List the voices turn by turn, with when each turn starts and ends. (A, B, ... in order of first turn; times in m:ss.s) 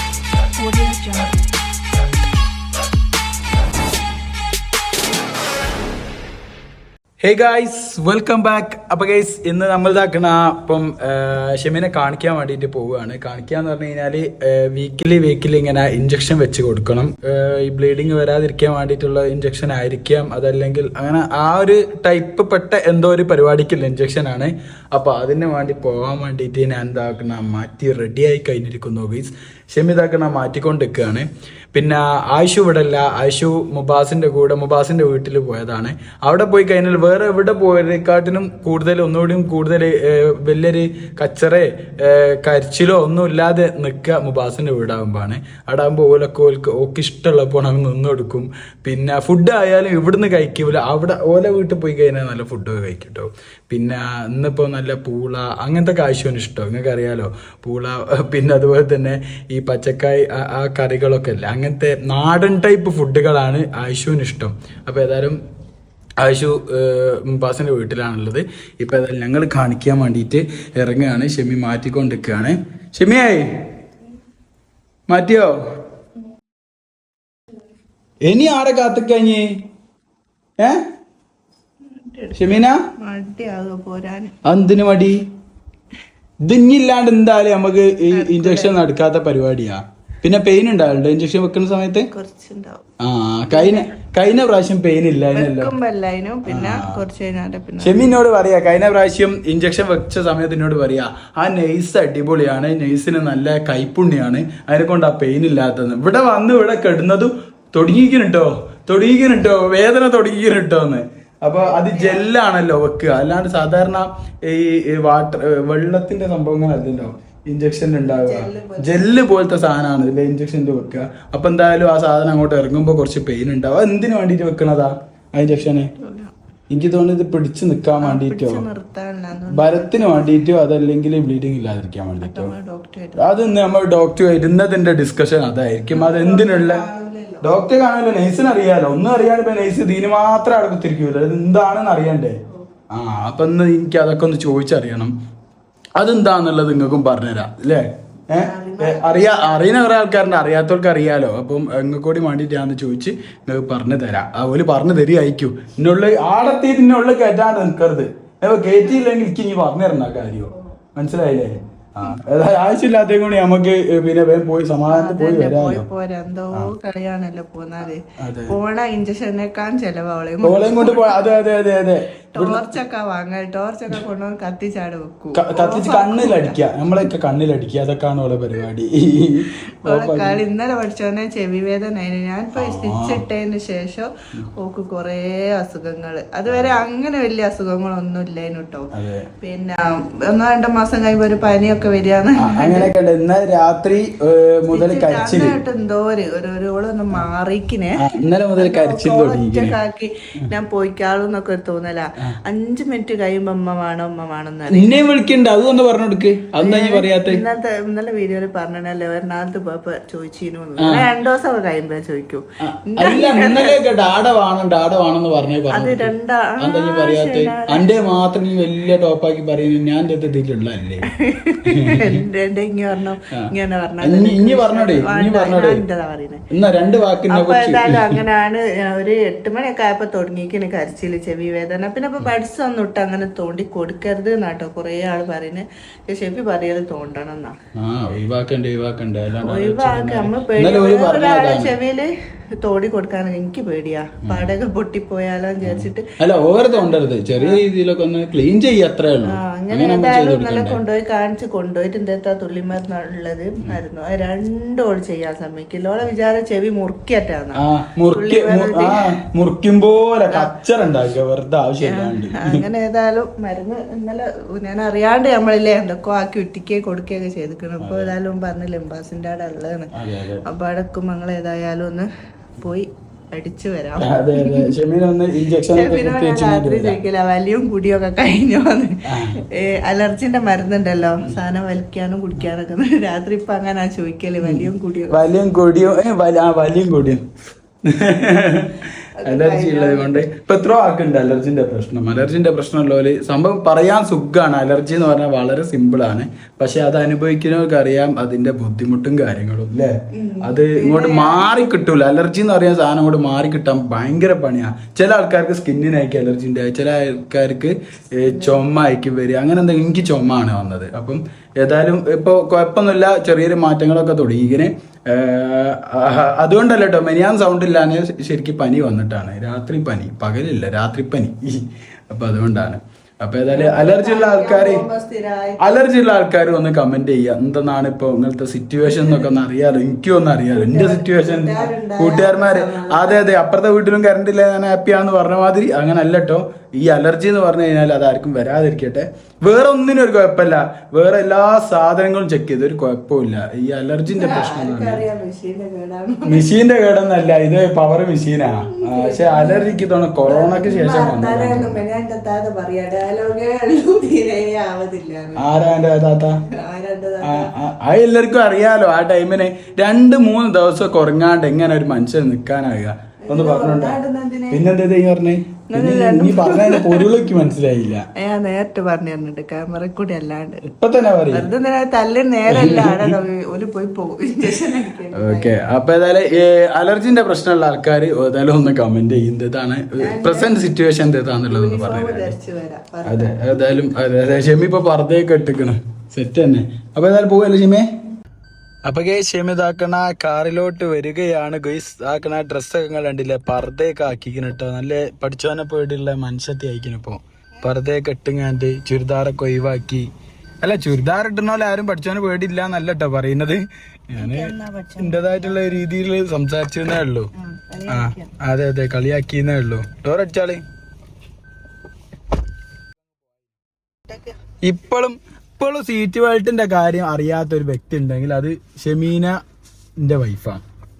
0:00.6-0:01.5 A
0:07.2-1:05.4 B
1:06.2-1:13.6 B
1:15.1-1:15.5 B
1:18.2-1:19.5 B
1:21.8-1:24.4 A
1:22.4-1:22.8 B
1:24.4-1:25.2 B
1:26.4-1:32.1 B
1:28.1-1:28.8 A
1:32.1-1:32.9 A
1:33.0-1:35.7 B
1:33.5-1:33.9 A
1:35.3-1:38.1 A
1:36.4-1:37.0 B
1:37.8-2:05.9 B
1:51.5-1:52.3 A
1:58.0-1:59.2 A
2:05.4-2:06.3 A
2:06.7-2:08.6 B
2:08.0-2:10.3 A
2:09.5-2:12.5 B
2:12.2-2:13.3 A
2:13.2-2:16.8 B
2:15.9-2:17.5 A
2:17.4-2:22.4 B
2:22.9-2:25.1 B
2:26.0-2:45.8 B
2:28.3-2:29.4 A
2:38.6-2:39.1 A
2:44.9-2:51.2 A
2:48.2-2:48.6 B
2:50.4-2:52.7 B
2:52.3-2:56.6 A
2:55.3-3:00.4 B
2:59.8-3:08.9 A
3:02.5-3:03.2 B
3:06.5-3:06.8 B
3:08.9-3:09.3 B
3:09.4-3:12.9 A
3:12.4-3:15.6 B
3:14.7-3:18.0 A
3:18.0-3:19.8 B
3:18.6-3:25.1 A
3:24.7-3:27.4 B
3:26.6-3:33.9 A
3:30.8-3:31.1 B
3:32.6-3:41.1 B
3:35.7-3:37.9 A
3:41.0-3:46.4 A
3:41.6-3:42.2 B
3:44.0-3:45.8 B
3:46.5-3:48.2 B
3:47.3-3:57.5 A
3:57.8-4:01.7 B
3:59.4-4:07.6 A
4:04.2-4:04.5 B
4:05.6-4:10.8 B
4:09.2-4:19.1 A
4:17.6-4:22.6 B
4:21.8-4:29.9 A
4:27.8-4:28.1 B
4:29.9-4:30.4 B
4:30.4-4:34.7 A
4:34.0-4:37.0 B
4:35.6-4:45.2 A
4:39.1-4:39.4 B
4:44.4-4:47.2 B
4:47.8-5:24.8 B
4:49.2-4:50.2 A
5:00.1-5:01.5 A
5:08.2-5:08.6 A
5:23.5-5:25.7 A
5:25.6-5:45.0 B
5:28.8-5:29.3 A
5:30.5-5:33.3 A
5:44.1-5:46.5 A
5:46.2-5:51.8 B
5:48.5-5:55.5 A
5:55.4-5:56.4 B
5:56.5-5:57.5 A
5:57.2-6:04.0 B
6:03.2-6:04.6 A
6:04.5-6:08.1 B
6:05.7-6:07.1 A
6:08.1-6:10.6 A
6:10.6-6:11.5 B
6:11.3-6:15.6 A
6:12.5-6:13.1 B
6:15.1-6:22.3 B
6:20.0-6:20.5 A
6:21.5-6:23.5 A
6:23.0-6:27.8 B
6:28.8-6:40.1 B
6:40.6-6:47.3 B
6:44.2-6:45.7 A
6:47.4-6:48.3 A
6:47.9-6:50.6 B
6:54.1-6:54.4 A
6:54.6-6:59.4 B
7:00.0-7:00.6 B